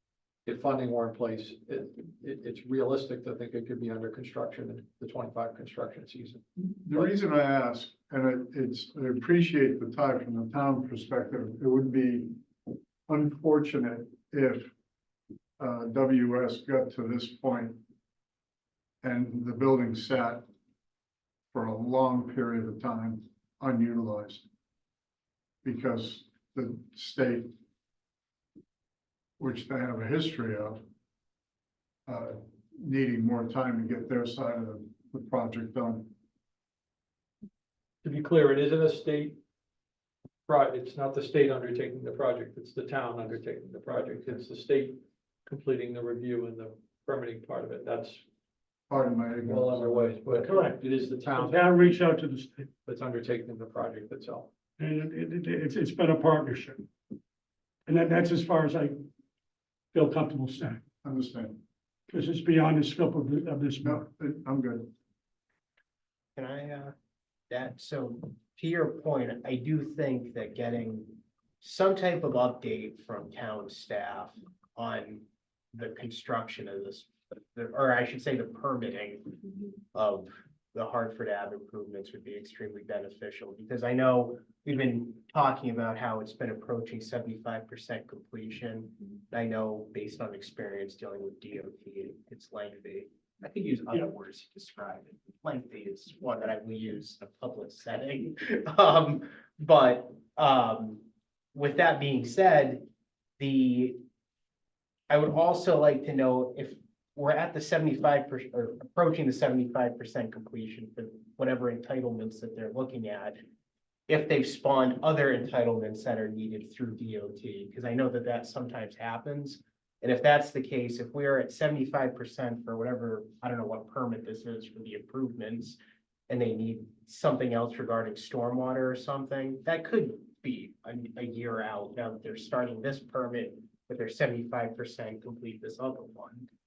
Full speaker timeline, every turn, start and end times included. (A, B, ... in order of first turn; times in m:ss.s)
0:00.5-0:07.1 A
0:06.8-0:12.4 B
0:13.1-0:14.7 B
0:15.6-0:17.8 B
0:19.0-0:20.5 B
0:21.5-0:24.4 B
0:25.6-0:27.5 B
0:29.4-0:30.8 B
0:32.1-0:36.1 B
0:38.0-0:39.4 A
0:40.5-0:48.2 A
0:48.9-0:50.4 B
0:49.5-0:51.7 A
0:50.4-0:52.7 C
0:52.8-0:54.5 A
0:54.8-0:56.9 C
0:57.9-0:59.0 C
0:59.9-1:00.8 C
1:01.0-1:01.6 B
1:02.1-1:04.0 C
1:03.8-1:04.9 B
1:06.4-1:06.9 D
1:07.5-1:19.4 D
1:19.9-1:42.9 D
1:43.4-1:44.0 D
1:45.1-1:53.4 D
1:54.1-2:05.8 D
2:06.3-2:16.5 D